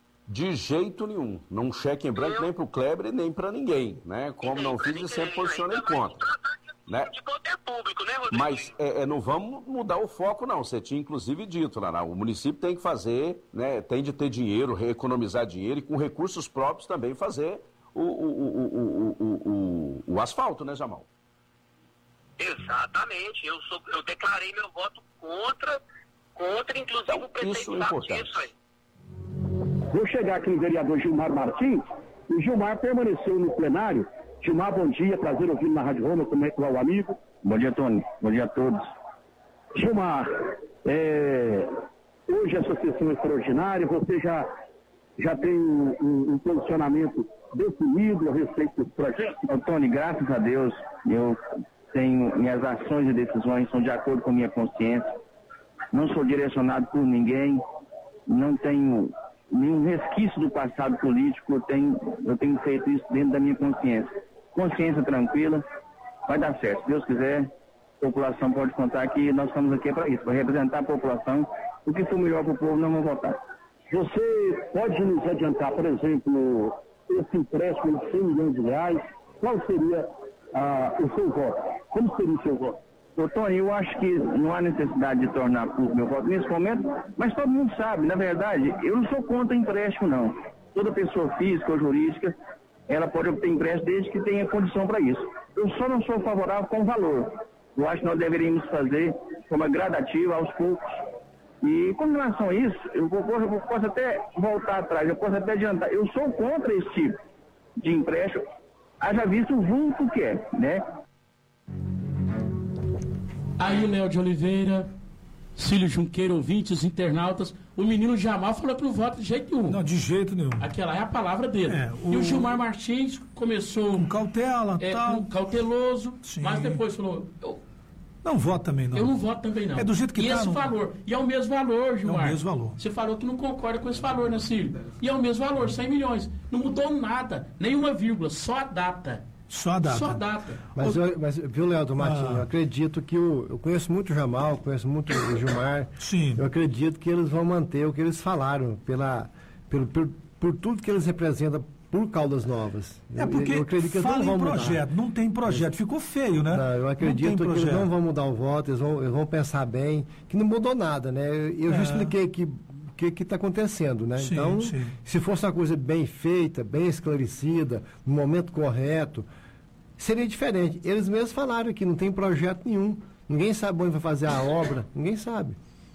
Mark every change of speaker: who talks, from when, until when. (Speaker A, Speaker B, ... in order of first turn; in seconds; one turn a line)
Speaker A: 0.3-6.2
Speaker B: 2.2-2.5
Speaker B: 4.4-8.8
Speaker A: 8.3-21.1
Speaker B: 22.4-25.8
Speaker B: 26.4-28.5
Speaker A: 27.1-28.3
Speaker C: 29.9-37.3
Speaker D: 37.4-38.8
Speaker C: 39.8-40.2
Speaker D: 40.9-41.7
Speaker C: 42.3-44.5
Speaker C: 45.2-49.2
Speaker D: 49.3-51.4
Speaker D: 51.9-55.1
Speaker D: 55.9-57.6
Speaker D: 58.3-65.6
Speaker D: 66.3-67.5
Speaker D: 68.0-73.4
Speaker C: 73.9-82.8
Speaker D: 83.2-92.3
Speaker D: 92.9-100.8
Speaker D: 101.6-107.2
Speaker D: 107.8-108.4
Speaker D: 109.0-110.8
Speaker E: 113.6-114.9
Speaker E: 115.6-119.8
Speaker F: 119.7-120.7
Speaker E: 120.6-124.1
Speaker F: 121.7-122.5
Speaker F: 124.0-125.3
Speaker E: 124.8-127.6
Speaker F: 126.2-126.8
Speaker F: 128.2-129.1
Speaker E: 128.9-139.2
Speaker F: 129.8-130.7
Speaker F: 132.1-132.8
Speaker F: 139.5-140.2
Speaker E: 139.8-140.6
Speaker G: 140.8-154.8
Speaker F: 142.0-142.5
Speaker F: 146.0-146.4
Speaker F: 153.2-157.9
Speaker G: 156.5-169.3
Speaker F: 161.7-162.1
Speaker F: 164.2-164.9
Speaker G: 170.0-175.6